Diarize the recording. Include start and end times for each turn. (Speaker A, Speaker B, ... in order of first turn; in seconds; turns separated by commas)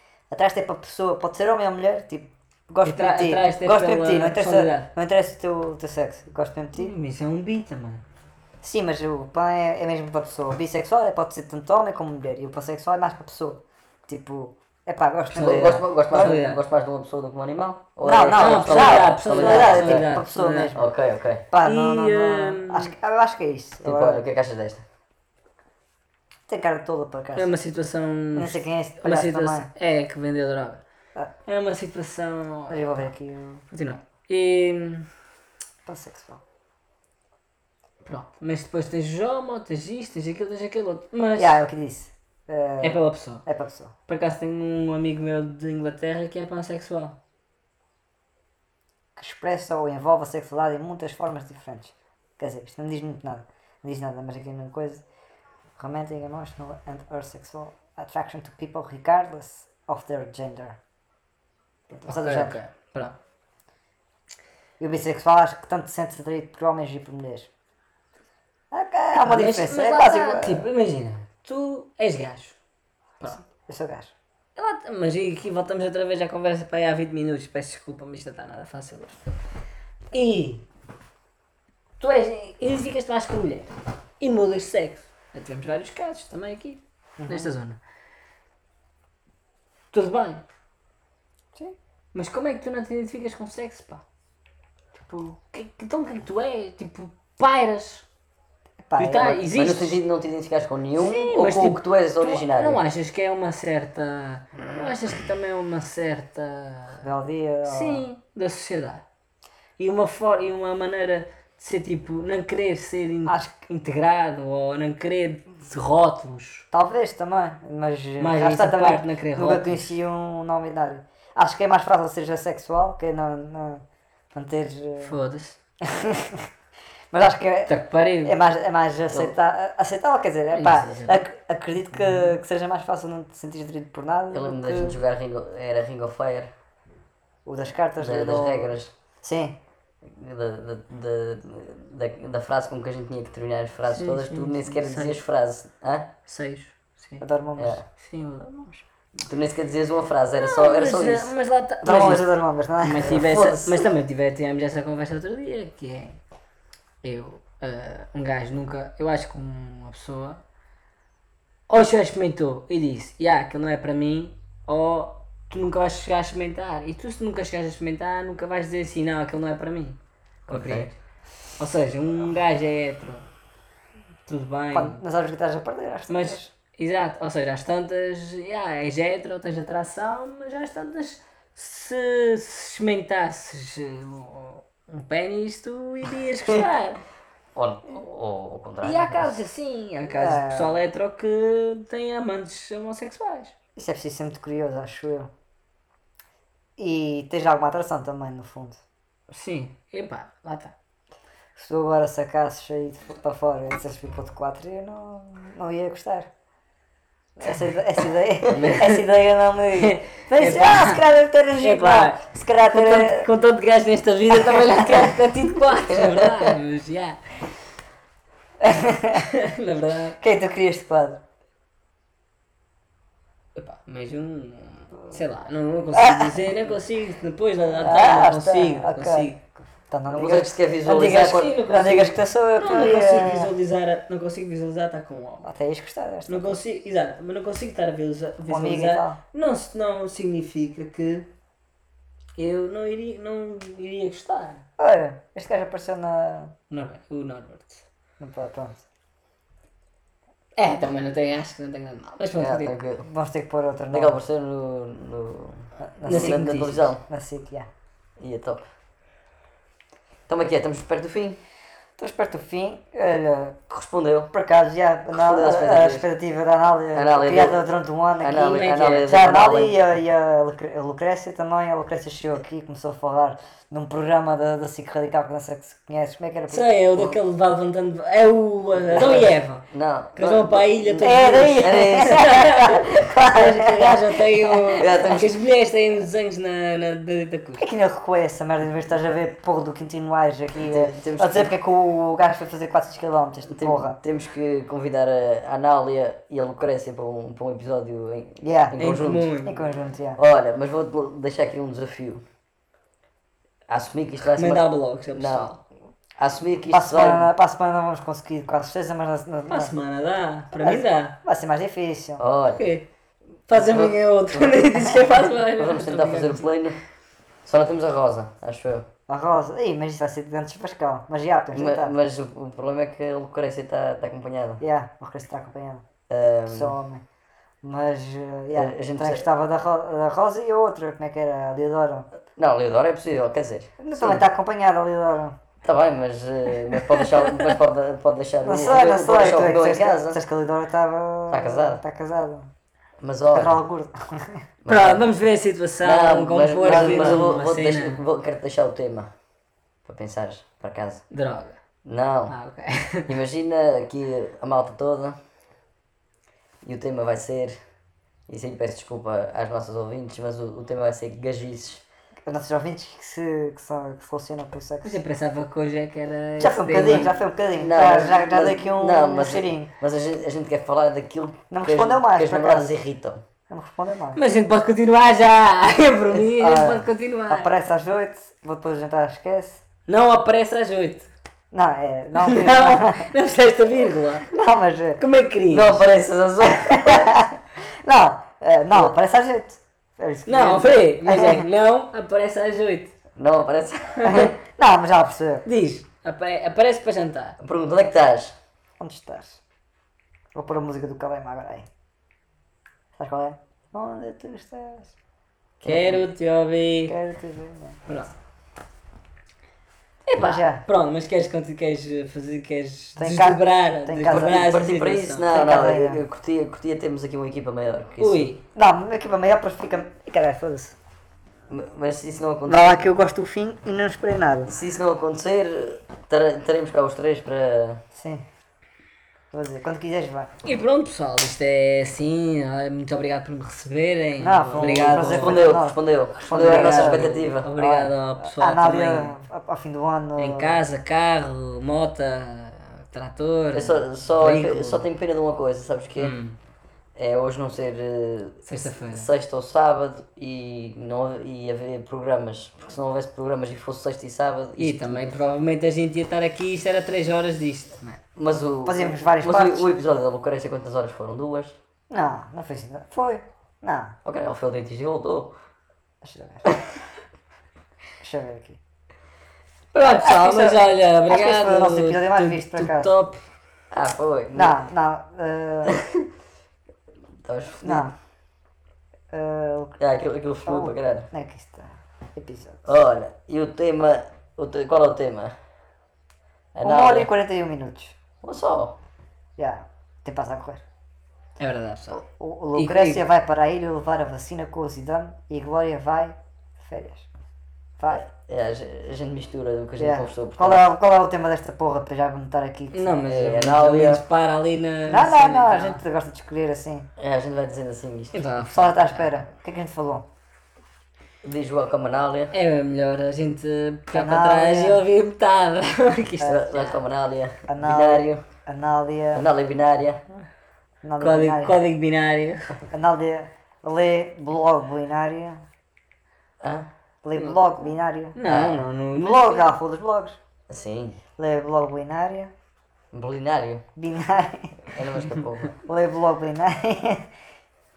Speaker A: 0.3-6.9, Speaker B: 2.8-4.9, Speaker B: 6.8-8.0, Speaker A: 8.6-16.4, Speaker B: 15.3-16.6, Speaker C: 15.3-20.1, Speaker A: 18.0-20.9, Speaker B: 18.3-20.7, Speaker C: 20.7-21.4, Speaker A: 21.5-24.2, Speaker B: 21.6-22.9, Speaker C: 23.8-24.8, Speaker A: 26.5-27.5, Speaker B: 27.4-30.8, Speaker A: 28.3-29.7, Speaker B: 31.4-33.1, Speaker A: 32.7-33.6, Speaker B: 33.7-35.1, Speaker A: 35.9-36.4, Speaker B: 38.0-41.6, Speaker A: 41.4-43.9, Speaker B: 42.8-43.4, Speaker B: 44.1-47.2, Speaker A: 49.1-55.0, Speaker A: 55.8-60.8, Speaker A: 61.9-62.6, Speaker B: 62.1-63.2, Speaker A: 64.8-67.5, Speaker A: 68.7-70.7, Speaker B: 69.2-72.6, Speaker A: 73.4-74.1, Speaker B: 74.5-79.3, Speaker B: 80.1-80.6, Speaker B: 82.0-87.8, Speaker A: 87.2-87.5, Speaker B: 89.9-90.4, Speaker B: 92.1-94.0, Speaker B: 95.1-98.1, Speaker A: 98.8-99.4, Speaker B: 99.0-100.0, Speaker C: 99.5-102.8, Speaker B: 101.0-107.0, Speaker A: 107.0-108.0, Speaker B: 107.6-109.0, Speaker B: 109.8-116.7, Speaker A: 113.2-113.5, Speaker A: 116.7-123.8, Speaker B: 118.2-119.9, Speaker A: 124.3-125.2, Speaker B: 125.0-125.6, Speaker A: 125.8-126.4, Speaker A: 127.1-135.0, Speaker B: 127.7-128.3, Speaker B: 130.5-131.2, Speaker C: 134.3-136.5, Speaker A: 137.4-139.6, Speaker C: 138.0-138.9, Speaker C: 140.0-146.1, Speaker B: 143.9-145.2, Speaker B: 146.3-147.2, Speaker A: 147.2-147.8, Speaker C: 147.6-147.8, Speaker B: 148.0-148.8, Speaker C: 149.2-151.3, Speaker B: 150.3-152.3, Speaker A: 151.8-153.2, Speaker B: 152.8-156.2, Speaker C: 153.1-153.8, Speaker B: 157.0-160.4, Speaker B: 161.7-170.9, Speaker C: 170.5-170.9, Speaker B: 171.6-173.2, Speaker B: 174.3-175.0, Speaker A: 174.7-176.5, Speaker B: 176.1-187.0, Speaker C: 187.5-189.3, Speaker B: 188.8-193.5, Speaker A: 190.1-190.8, Speaker A: 193.8-195.3, Speaker A: 196.8-198.8, Speaker B: 199.3-200.7, Speaker A: 201.6-206.3, Speaker A: 207.4-213.3, Speaker B: 208.5-209.0, Speaker B: 209.8-211.0, Speaker B: 211.6-217.2, Speaker A: 214.5-215.1, Speaker C: 216.0-216.5, Speaker A: 218.6-219.3, Speaker B: 219.1-220.2, Speaker A: 220.2-221.2, Speaker B: 223.6-229.3, Speaker A: 225.9-226.4, Speaker A: 227.8-233.5, Speaker C: 230.1-231.6, Speaker B: 230.8-235.5, Speaker A: 235.4-236.6, Speaker B: 236.3-241.3, Speaker A: 238.5-239.2, Speaker B: 242.4-244.6, Speaker A: 244.8-246.5, Speaker B: 246.7-247.8, Speaker A: 248.2-248.8, Speaker B: 250.6-252.8, Speaker C: 252.4-253.1, Speaker A: 253.0-254.2, Speaker C: 253.9-257.0, Speaker A: 255.8-257.7, Speaker B: 256.1-256.9, Speaker C: 258.2-258.7, Speaker C: 260.3-261.4, Speaker A: 262.0-263.6, Speaker C: 263.7-264.3, Speaker A: 264.3-276.7, Speaker C: 265.1-266.1, Speaker C: 266.9-267.6, Speaker C: 268.2-269.8, Speaker B: 268.4-269.1, Speaker B: 276.5-287.6, Speaker C: 278.9-282.4, Speaker A: 281.0-284.7, Speaker C: 284.8-285.3, Speaker A: 287.6-294.0, Speaker C: 290.6-291.5, Speaker C: 293.5-299.3, Speaker A: 298.4-300.2, Speaker B: 298.8-299.6, Speaker C: 300.1-302.2, Speaker C: 303.7-305.5, Speaker B: 304.4-305.6, Speaker C: 306.2-307.3, Speaker A: 306.7-309.7, Speaker B: 309.5-311.2, Speaker A: 310.6-312.2, Speaker C: 312.2-312.6, Speaker B: 312.5-312.9, Speaker B: 313.5-316.5, Speaker C: 313.6-314.6, Speaker C: 315.4-316.8, Speaker C: 317.4-318.9, Speaker A: 319.1-321.9, Speaker C: 321.5-324.6, Speaker A: 324.6-325.8, Speaker C: 326.1-326.8, Speaker A: 326.5-327.0, Speaker A: 327.6-332.1, Speaker C: 328.5-329.2, Speaker C: 332.4-334.2, Speaker A: 333.8-335.4, Speaker C: 335.6-340.2, Speaker A: 338.4-342.5, Speaker C: 341.3-341.8, Speaker C: 343.0-343.6, Speaker A: 343.3-344.4, Speaker C: 344.6-345.1, Speaker B: 344.7-348.0, Speaker C: 345.8-349.1, Speaker A: 346.6-347.2, Speaker C: 349.8-351.0, Speaker B: 351.1-351.6, Speaker C: 351.8-352.3, Speaker B: 352.3-353.1, Speaker C: 353.1-355.2, Speaker C: 356.6-357.6, Speaker C: 358.3-361.8, Speaker A: 362.3-365.0, Speaker B: 364.8-367.1, Speaker A: 366.4-369.7, Speaker C: 367.6-373.2, Speaker A: 371.5-372.7, Speaker A: 373.5-374.2, Speaker B: 374.1-377.5, Speaker A: 376.2-379.6, Speaker B: 379.9-381.1, Speaker A: 381.5-383.1, Speaker B: 382.1-384.3, Speaker A: 384.3-385.0, Speaker B: 385.0-385.8, Speaker C: 385.5-387.1, Speaker A: 386.5-391.4, Speaker B: 390.2-392.9, Speaker C: 393.2-394.3, Speaker B: 394.0-394.2, Speaker A: 394.0-395.4, Speaker B: 395.4-397.4, Speaker C: 397.4-398.4, Speaker A: 398.8-399.4, Speaker A: 400.3-401.7, Speaker A: 403.0-404.9, Speaker C: 405.6-406.1, Speaker B: 405.6-406.9, Speaker A: 406.9-407.8, Speaker B: 407.9-408.1, Speaker B: 410.1-415.2, Speaker A: 410.2-410.6, Speaker A: 413.0-414.4, Speaker C: 414.2-418.3, Speaker A: 415.3-416.0, Speaker B: 418.0-418.4, Speaker A: 418.5-420.8, Speaker C: 421.5-422.8, Speaker A: 422.5-424.5, Speaker C: 424.4-427.8, Speaker A: 427.9-428.2, Speaker A: 429.3-430.3, Speaker B: 430.4-435.5, Speaker A: 434.2-440.6, Speaker C: 434.6-437.5, Speaker B: 436.3-439.1, Speaker B: 440.2-444.8, Speaker C: 443.5-446.1, Speaker B: 446.0-446.4, Speaker C: 446.9-455.2, Speaker B: 448.4-449.1, Speaker B: 454.6-458.0, Speaker C: 458.1-461.6, Speaker A: 458.6-459.7, Speaker A: 461.9-463.9, Speaker C: 464.0-465.3, Speaker A: 466.0-466.5, Speaker A: 468.0-468.6, Speaker B: 469.7-473.2, Speaker A: 469.9-472.9, Speaker C: 473.7-474.6, Speaker A: 474.3-475.8, Speaker C: 475.7-476.0, Speaker C: 477.2-477.9, Speaker A: 477.6-477.9, Speaker A: 479.1-479.8, Speaker C: 479.8-481.1, Speaker A: 480.4-482.6, Speaker C: 482.6-485.3, Speaker C: 486.5-487.1, Speaker A: 486.6-487.9, Speaker C: 488.2-488.8, Speaker A: 489.4-490.6, Speaker B: 491.4-492.0, Speaker A: 492.0-497.1, Speaker B: 492.5-493.0, Speaker A: 497.8-498.0, Speaker C: 497.9-500.6, Speaker A: 499.8-503.1, Speaker B: 502.7-505.8, Speaker C: 503.1-504.0, Speaker A: 504.9-506.9, Speaker C: 507.0-508.3, Speaker B: 508.1-509.1, Speaker A: 508.5-510.0, Speaker C: 511.2-512.3, Speaker B: 512.3-516.8, Speaker A: 513.9-514.8, Speaker C: 516.2-518.2, Speaker A: 517.5-519.2, Speaker C: 519.1-520.0, Speaker A: 520.8-521.6, Speaker B: 521.0-522.5, Speaker A: 522.7-525.4, Speaker C: 526.4-526.7, Speaker A: 527.0-528.2, Speaker B: 527.1-529.5, Speaker C: 528.3-528.6, Speaker A: 529.0-530.2, Speaker C: 530.5-531.0, Speaker A: 531.2-532.3, Speaker C: 532.9-533.6, Speaker A: 533.8-534.7, Speaker C: 534.7-535.6, Speaker A: 535.6-537.1